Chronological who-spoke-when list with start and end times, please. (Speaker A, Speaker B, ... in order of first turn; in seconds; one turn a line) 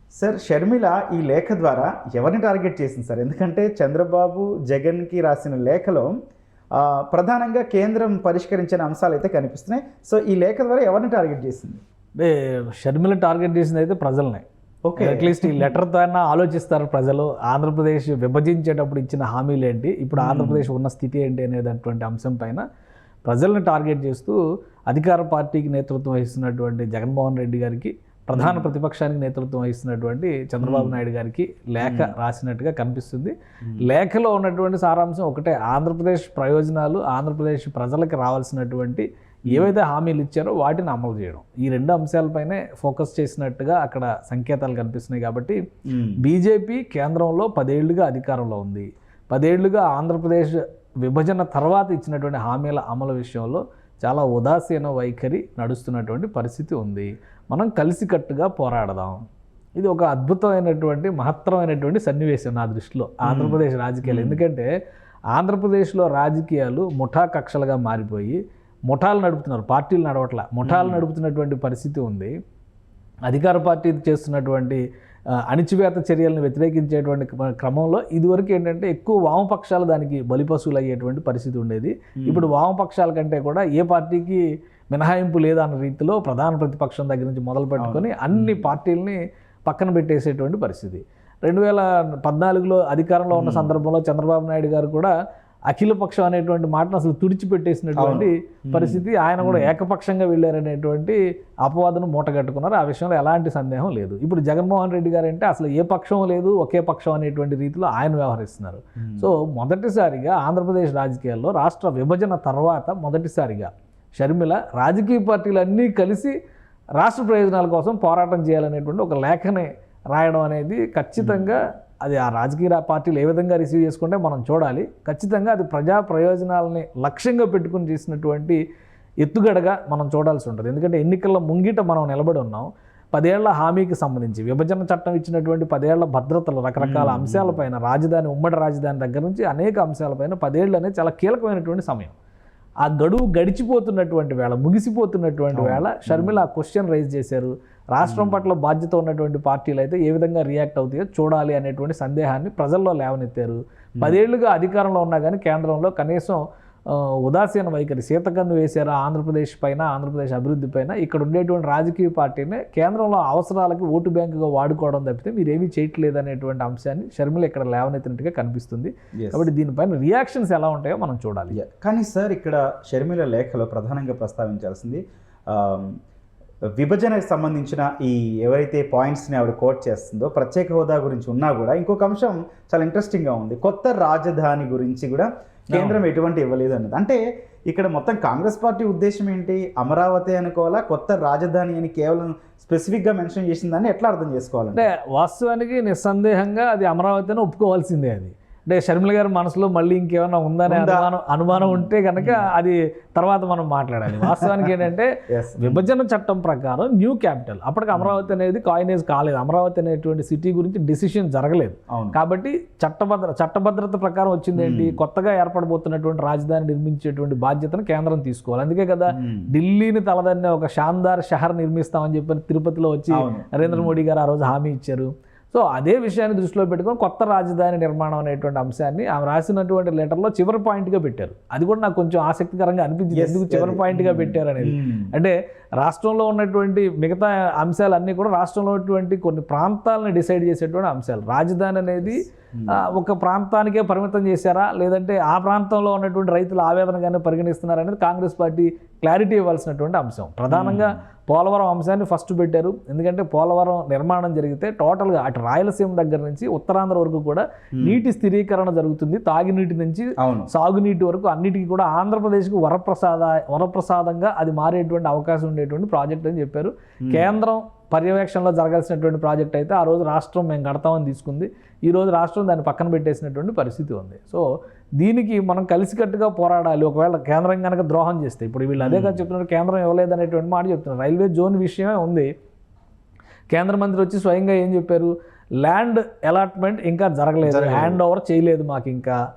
Speaker A: 0.1-6.1
Speaker A: 6.8-11.8
Speaker B: 12.2-14.4
Speaker A: 14.8-15.6
Speaker B: 15.0-22.6
Speaker A: 20.2-20.7
Speaker B: 23.2-45.6
Speaker A: 28.3-28.6
Speaker A: 30.6-30.9
Speaker A: 31.8-32.1
Speaker A: 45.9-46.2
Speaker B: 46.2-59.2
Speaker B: 59.8-64.7
Speaker A: 63.2-64.4
Speaker B: 65.3-72.3
Speaker A: 70.6-71.0
Speaker B: 73.3-74.8
Speaker B: 75.3-95.1
Speaker A: 82.2-82.5
Speaker A: 87.8-88.7
Speaker A: 93.3-93.7
Speaker B: 95.7-116.3
Speaker A: 98.0-99.7
Speaker A: 109.0-109.3
Speaker B: 117.0-128.6
Speaker A: 121.2-121.5
Speaker B: 129.2-142.1
Speaker A: 136.8-137.6
Speaker B: 142.8-171.6
Speaker A: 145.5-146.4
Speaker A: 148.0-148.4
Speaker A: 169.2-169.4
Speaker A: 171.5-175.9
Speaker A: 176.8-194.9
Speaker B: 185.7-186.0
Speaker B: 194.7-274.4
Speaker A: 200.7-202.4
Speaker A: 205.3-205.9
Speaker A: 207.9-208.3
Speaker A: 211.9-212.2
Speaker A: 214.6-215.0
Speaker A: 219.1-219.5
Speaker A: 223.1-223.9
Speaker A: 233.1-235.1
Speaker A: 242.5-242.8
Speaker A: 250.5-250.9
Speaker A: 260.2-260.5
Speaker A: 267.1-267.3
Speaker B: 275.0-282.3
Speaker A: 278.8-279.2
Speaker B: 283.5-289.2
Speaker A: 287.4-288.0